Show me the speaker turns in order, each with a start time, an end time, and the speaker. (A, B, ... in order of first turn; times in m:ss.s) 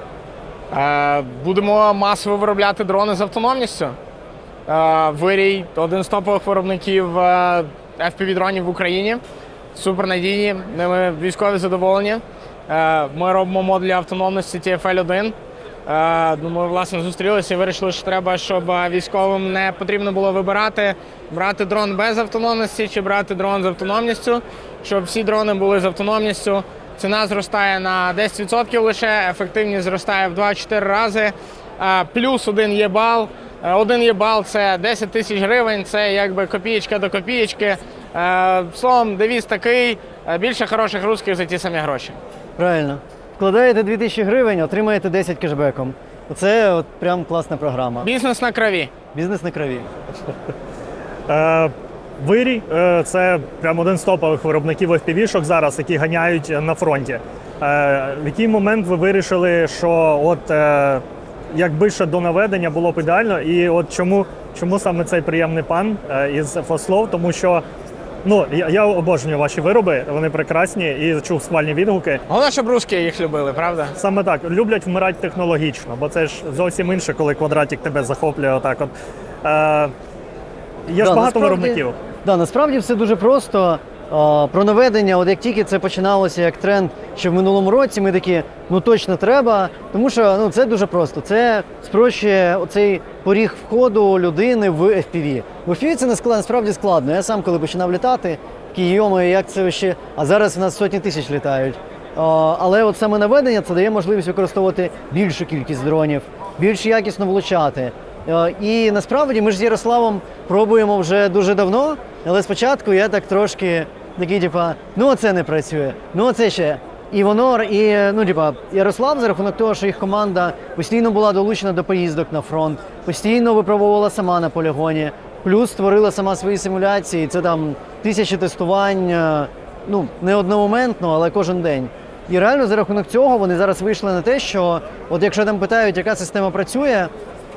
0:00.7-0:04.0 A
0:04.7-0:09.2 A
0:09.7-0:15.4 A
0:15.9-0:42.2 A
0:42.6-0:48.1 B
0:48.0-0:48.9 A
0:49.1-0:49.9 B
0:51.3-1:07.6 C
1:08.2-1:12.2 C
1:12.3-1:14.0 A
1:14.0-1:18.9 C
1:19.4-1:19.9 C
1:20.9-1:22.0 C
1:21.0-2:17.1 B